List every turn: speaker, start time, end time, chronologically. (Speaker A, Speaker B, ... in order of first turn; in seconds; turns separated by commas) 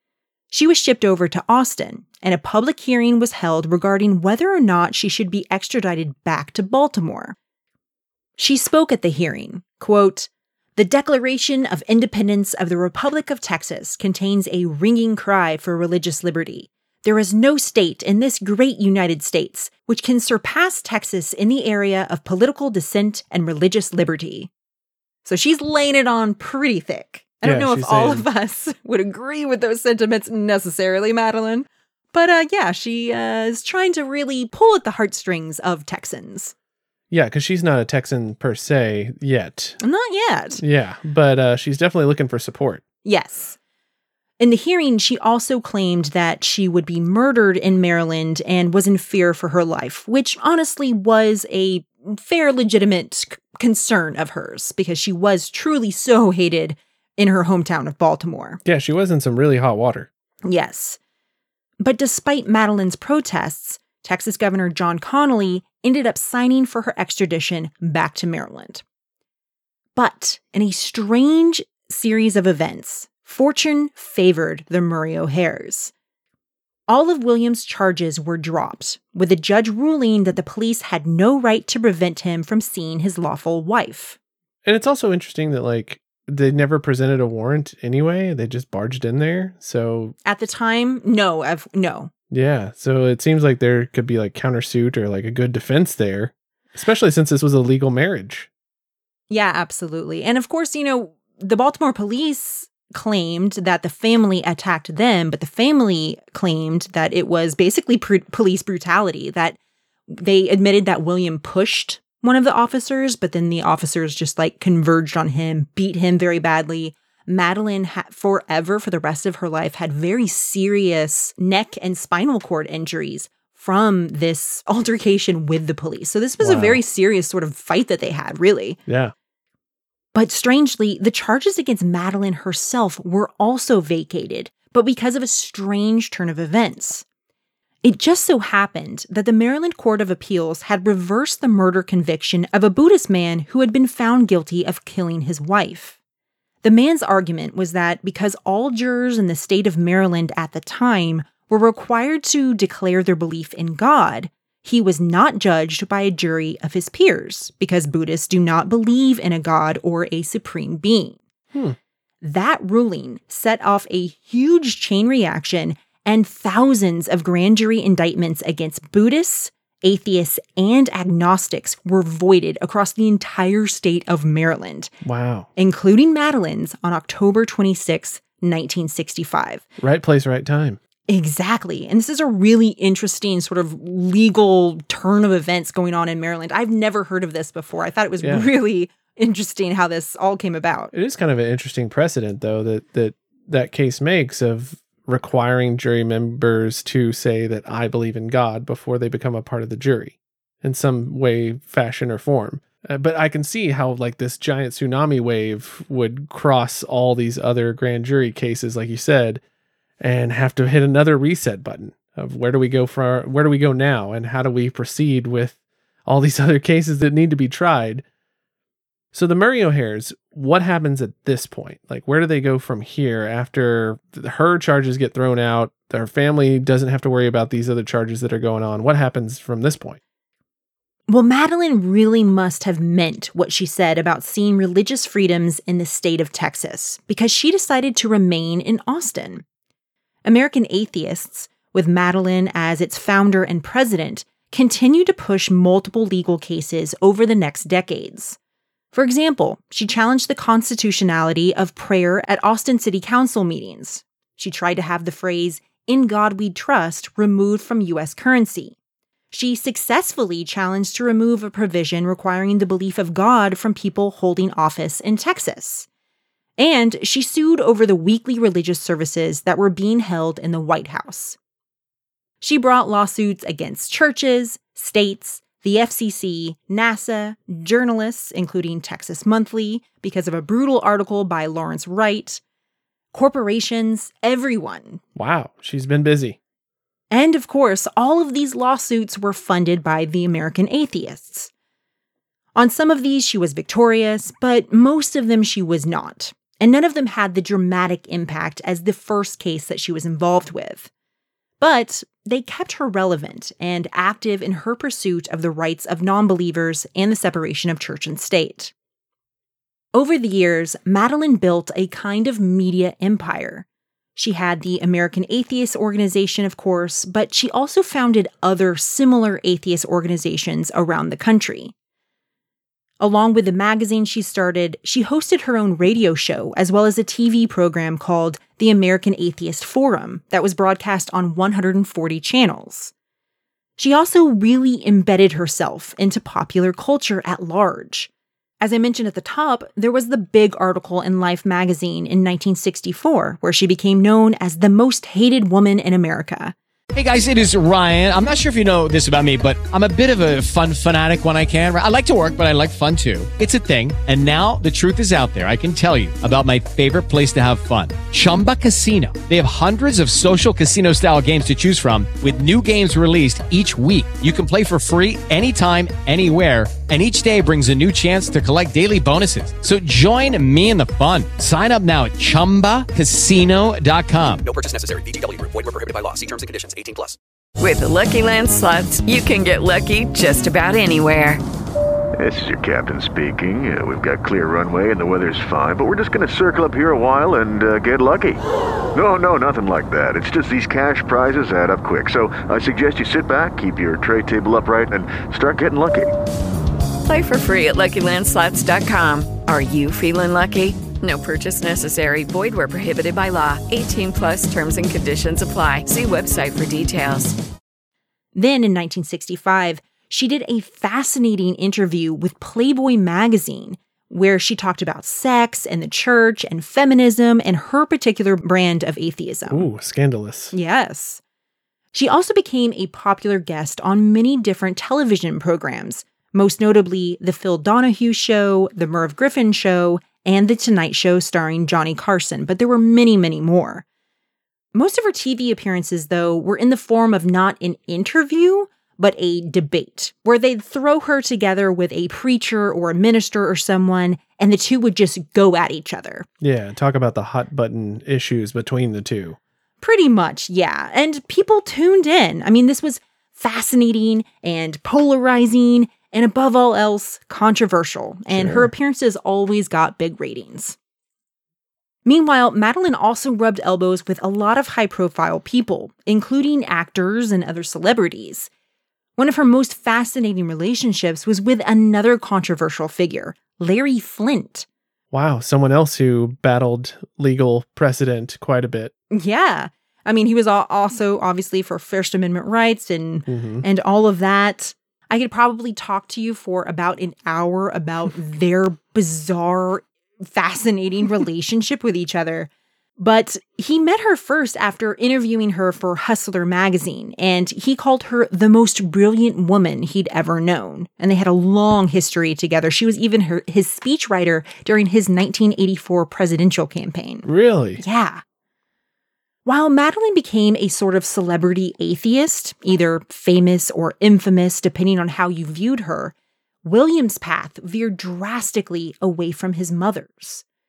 Speaker A: 0.5-7.4, Speaker A: 8.4-24.5, Speaker A: 25.2-36.5, Speaker B: 27.4-28.3, Speaker B: 37.1-39.8, Speaker A: 39.8-40.6, Speaker B: 40.6-42.8, Speaker A: 43.0-43.6, Speaker A: 44.4-58.6, Speaker B: 58.6-60.1, Speaker A: 60.4-61.0, Speaker A: 61.8-68.8, Speaker A: 70.0-75.9, Speaker A: 76.9-84.2, Speaker B: 84.7-90.2, Speaker A: 90.2-92.1, Speaker B: 92.3-98.5, Speaker A: 99.3-109.6, Speaker A: 110.1-128.8, Speaker B: 126.4-126.8, Speaker B: 128.9-129.1, Speaker A: 130.1-137.1, Speaker A: 137.8-146.0, Speaker A: 146.6-161.2, Speaker A: 162.2-174.9, Speaker B: 175.0-175.5, Speaker A: 175.6-179.7, Speaker B: 179.8-180.8, Speaker A: 181.1-190.9, Speaker B: 188.2-188.5, Speaker B: 190.9-209.4, Speaker B: 210.0-218.0, Speaker B: 219.1-230.0, Speaker A: 231.1-239.4, Speaker A: 240.2-248.4, Speaker A: 248.9-258.8, Speaker A: 259.3-265.9, Speaker A: 266.6-271.4, Speaker A: 272.4-282.4, Speaker A: 283.1-285.0, Speaker B: 285.2-286.4, Speaker A: 287.1-291.5, Speaker A: 292.6-300.9, Speaker A: 301.6-308.7, Speaker A: 309.9-313.6, Speaker A: 314.2-321.7, Speaker A: 323.0-332.9, Speaker A: 333.8-338.1, Speaker A: 338.6-346.6, Speaker C: 346.9-374.4, Speaker D: 374.4-377.2, Speaker E: 377.6-381.4, Speaker F: 382.2-388.4, Speaker F: 388.9-396.1, Speaker E: 397.1-407.4, Speaker A: 408.3-419.7, Speaker B: 419.5-420.5, Speaker A: 420.5-421.2, Speaker A: 421.9-433.8, Speaker A: 434.7-446.3, Speaker B: 446.4-449.4, Speaker A: 449.8-460.8, Speaker B: 458.3-458.7, Speaker A: 462.1-468.5, Speaker A: 469.2-474.7, Speaker B: 475.1-478.9, Speaker A: 479.1-507.3, Speaker B: 483.3-483.6, Speaker B: 507.2-507.8, Speaker A: 507.8-508.2, Speaker A: 509.4-516.1, Speaker A: 516.6-520.4